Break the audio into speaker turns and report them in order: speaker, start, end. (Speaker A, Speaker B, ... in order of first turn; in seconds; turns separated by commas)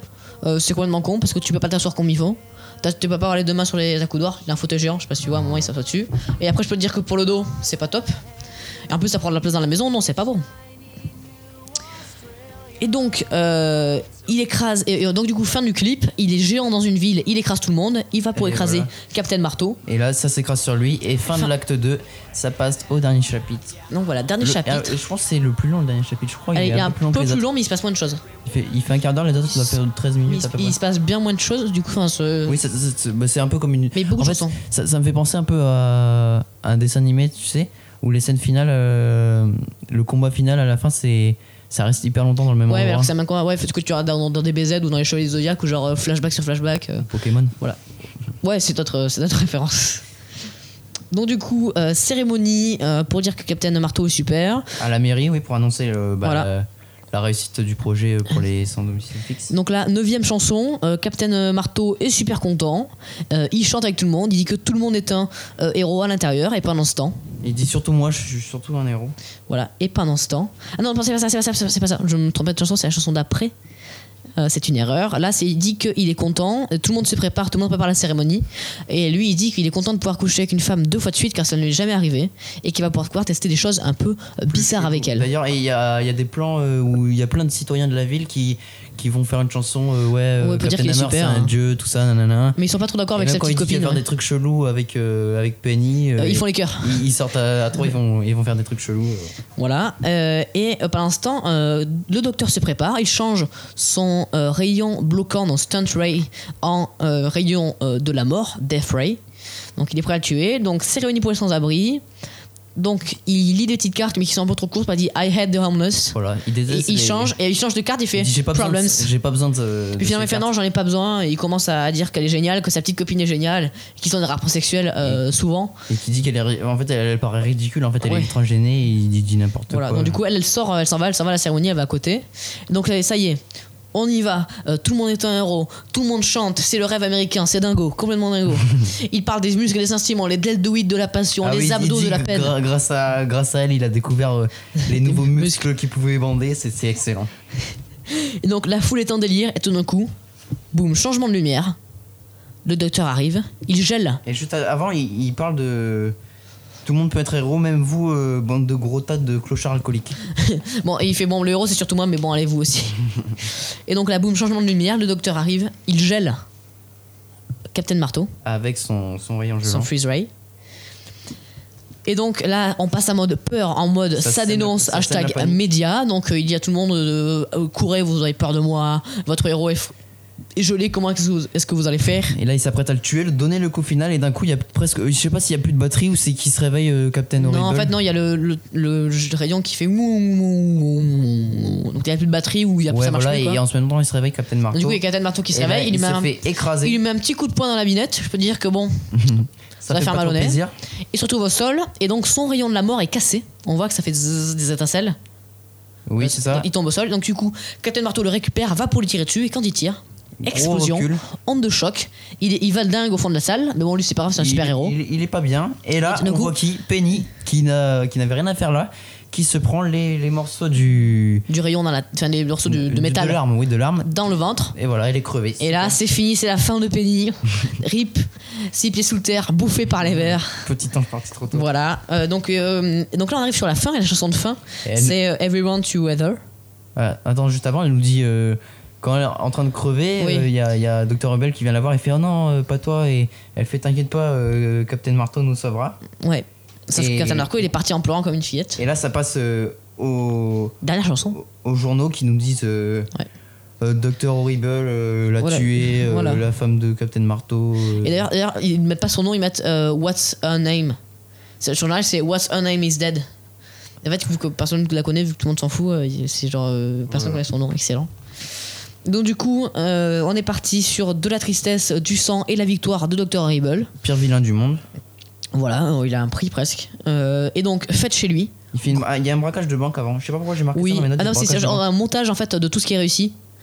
Speaker A: 0.4-8.2, Speaker A: 8.9-10.4, Speaker A: 12.8-19.8, Speaker B: 18.3-18.9, Speaker B: 19.9-23.8, Speaker A: 23.9-24.9, Speaker B: 24.4-27.4, Speaker A: 26.5-28.2, Speaker B: 28.4-30.8, Speaker A: 30.2-32.6, Speaker B: 32.5-43.1, Speaker A: 33.9-34.6, Speaker A: 42.7-47.1, Speaker B: 47.0-47.5, Speaker A: 48.4-50.0, Speaker A: 51.1-54.7, Speaker B: 54.8-59.5, Speaker A: 56.2-56.5, Speaker A: 59.5-67.2, Speaker B: 67.4-69.1, Speaker A: 69.5-73.5, Speaker A: 74.4-85.3, Speaker B: 84.5-92.6, Speaker A: 90.4-91.5, Speaker A: 92.5-94.0, Speaker B: 93.1-99.3, Speaker A: 96.2-97.0, Speaker A: 99.6-109.2, Speaker A: 109.8-112.0, Speaker A: 112.8-116.2, Speaker B: 116.1-117.3, Speaker A: 116.7-119.1, Speaker B: 118.2-120.5, Speaker A: 120.0-125.8, Speaker B: 125.9-130.2, Speaker A: 128.0-128.3, Speaker A: 129.7-133.4, Speaker A: 133.9-142.5, Speaker B: 141.4-147.3, Speaker A: 144.9-145.6, Speaker A: 148.1-150.1, Speaker A: 150.7-151.8, Speaker A: 152.6-154.2, Speaker B: 154.2-156.2, Speaker B: 156.8-160.2, Speaker A: 160.3-166.4, Speaker A: 167.7-168.3, Speaker B: 168.4-169.9, Speaker A: 169.6-170.3, Speaker A: 172.1-179.9, Speaker B: 174.2-175.6, Speaker A: 180.6-182.3, Speaker B: 182.3-187.9, Speaker A: 187.4-193.6, Speaker B: 192.8-195.0, Speaker A: 194.7-199.0, Speaker B: 195.5-197.0, Speaker B: 199.1-200.7, Speaker A: 199.9-200.6, Speaker A: 201.1-205.2, Speaker B: 206.1-206.7, Speaker A: 206.2-214.9, Speaker B: 210.4-211.2, Speaker B: 214.3-221.4, Speaker A: 216.0-216.6, Speaker A: 221.5-223.4, Speaker B: 222.7-224.1, Speaker A: 224.0-224.7, Speaker B: 224.7-226.0, Speaker A: 225.6-230.6, Speaker B: 230.2-231.7, Speaker A: 231.5-236.4, Speaker B: 234.8-235.2, Speaker B: 236.9-246.0, Speaker A: 240.2-240.5, Speaker A: 246.2-248.8, Speaker B: 246.9-247.6, Speaker B: 248.8-253.1, Speaker A: 250.8-251.4, Speaker B: 253.8-258.2, Speaker A: 255.4-256.4, Speaker A: 258.0-261.0, Speaker A: 261.6-263.3, Speaker A: 264.0-268.1, Speaker B: 267.1-267.4, Speaker A: 269.0-273.9, Speaker B: 274.0-274.8, Speaker A: 275.5-278.5, Speaker B: 278.7-281.8, Speaker A: 280.7-283.3